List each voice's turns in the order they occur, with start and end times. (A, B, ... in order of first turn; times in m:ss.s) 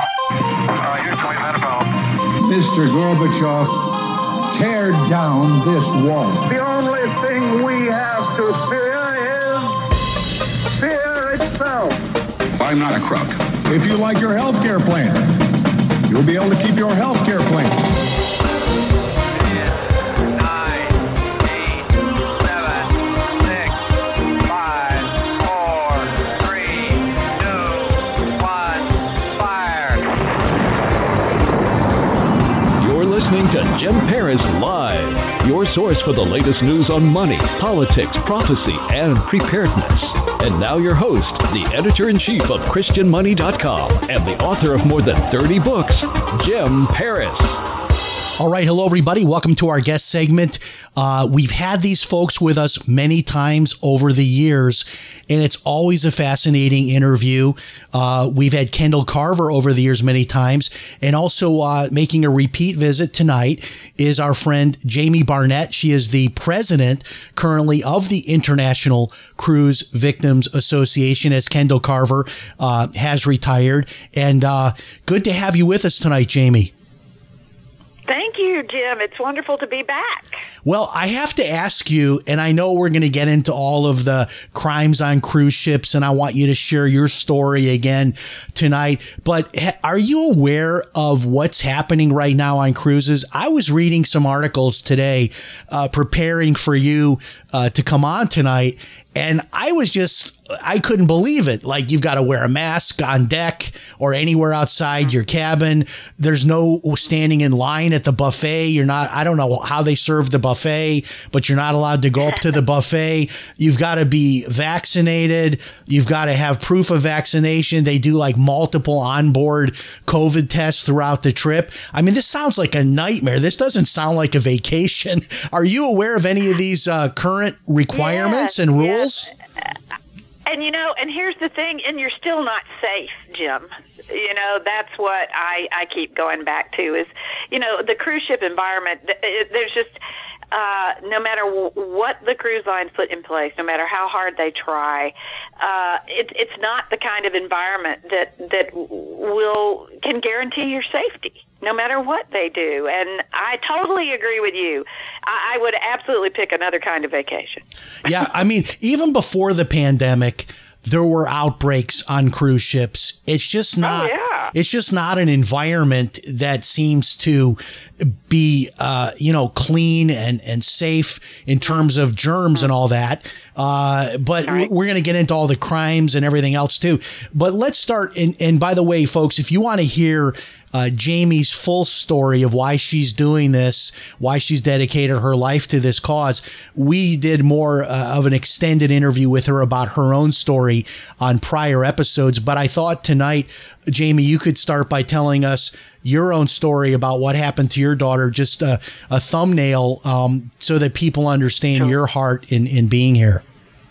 0:02.4-0:03.9 A
0:04.5-0:06.4 A
0:06.4-0:09.8 B
0:10.8-0:12.0 B
0:12.6-0:15.5 A
0:16.1-0:18.0 A
0:20.3-0:20.9 C
0:22.5-0:22.7 C
0:32.8-0:47.6 D
0:48.4-1:16.7 E
1:18.1-1:20.4 C
1:20.6-2:09.3 E
2:07.9-2:09.3 C
2:10.4-2:20.0 C
2:20.5-2:37.6 C
2:38.0-3:23.4 E
2:43.8-2:44.5 C